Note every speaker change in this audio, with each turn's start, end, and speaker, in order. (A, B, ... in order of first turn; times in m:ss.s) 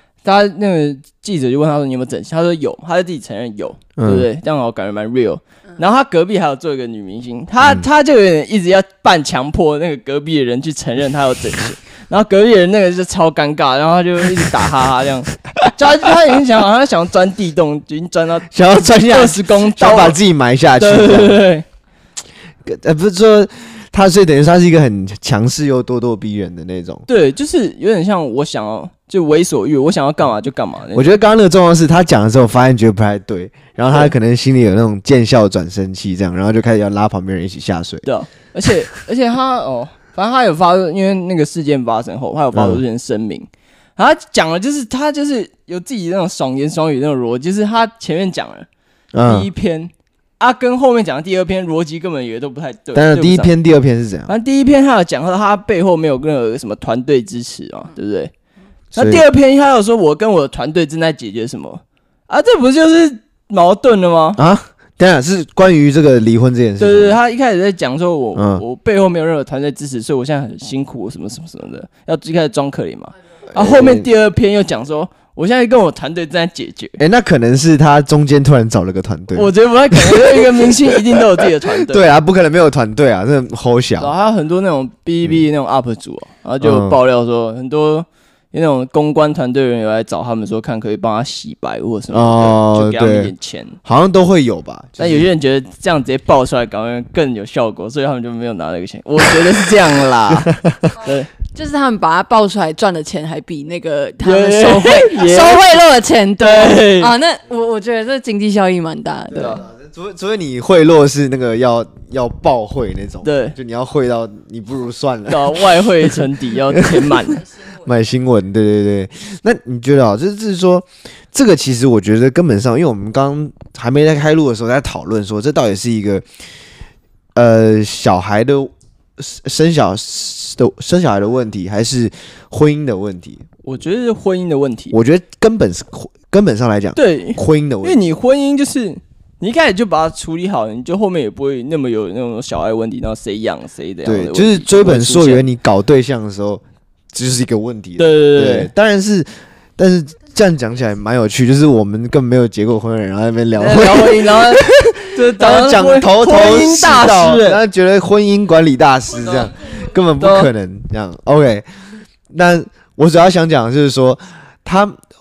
0:00.2-0:20.2 A
0:04.0-0:04.3 B
0:18.5-0:21.4 B
0:20.8-0:21.6 A
0:22.6-0:27.0 B
0:27.1-0:31.2 A
0:30.9-0:38.0 B
0:38.0-0:48.7 A
0:42.5-0:42.8 B
0:49.1-0:49.5 B
0:49.2-0:53.5 A
0:52.9-0:54.3 B
0:54.3-0:58.3 A
0:58.9-1:04.4 A
0:59.0-0:59.2 B
1:04.4-1:07.2 B
1:06.8-1:17.0 A
1:08.4-1:08.6 B
1:13.5-1:14.1 B
1:17.0-1:24.1 B
1:19.3-1:22.0 A
1:24.0-1:33.8 A
1:26.6-1:27.0 B
1:32.1-1:33.3 B
1:33.8-1:35.3 B
1:35.0-1:41.3 A
1:40.3-1:40.9 B
1:41.5-1:49.6 C
1:44.2-1:45.6 A
1:46.4-1:47.1 A
1:49.3-1:56.2 B
1:49.3-1:49.6 A
1:53.2-1:53.5 A
1:55.3-1:57.4 A
1:57.6-2:06.2 B
2:07.3-2:13.4 B
2:13.6-2:14.9 A
2:14.9-2:18.0 B
2:17.0-2:25.5 A
2:24.0-2:26.6 B
2:27.1-2:41.6 B
2:28.0-2:28.7 A
2:33.6-2:37.6 A
2:39.2-2:39.5 A
2:40.2-2:40.5 A
2:42.3-2:45.0 B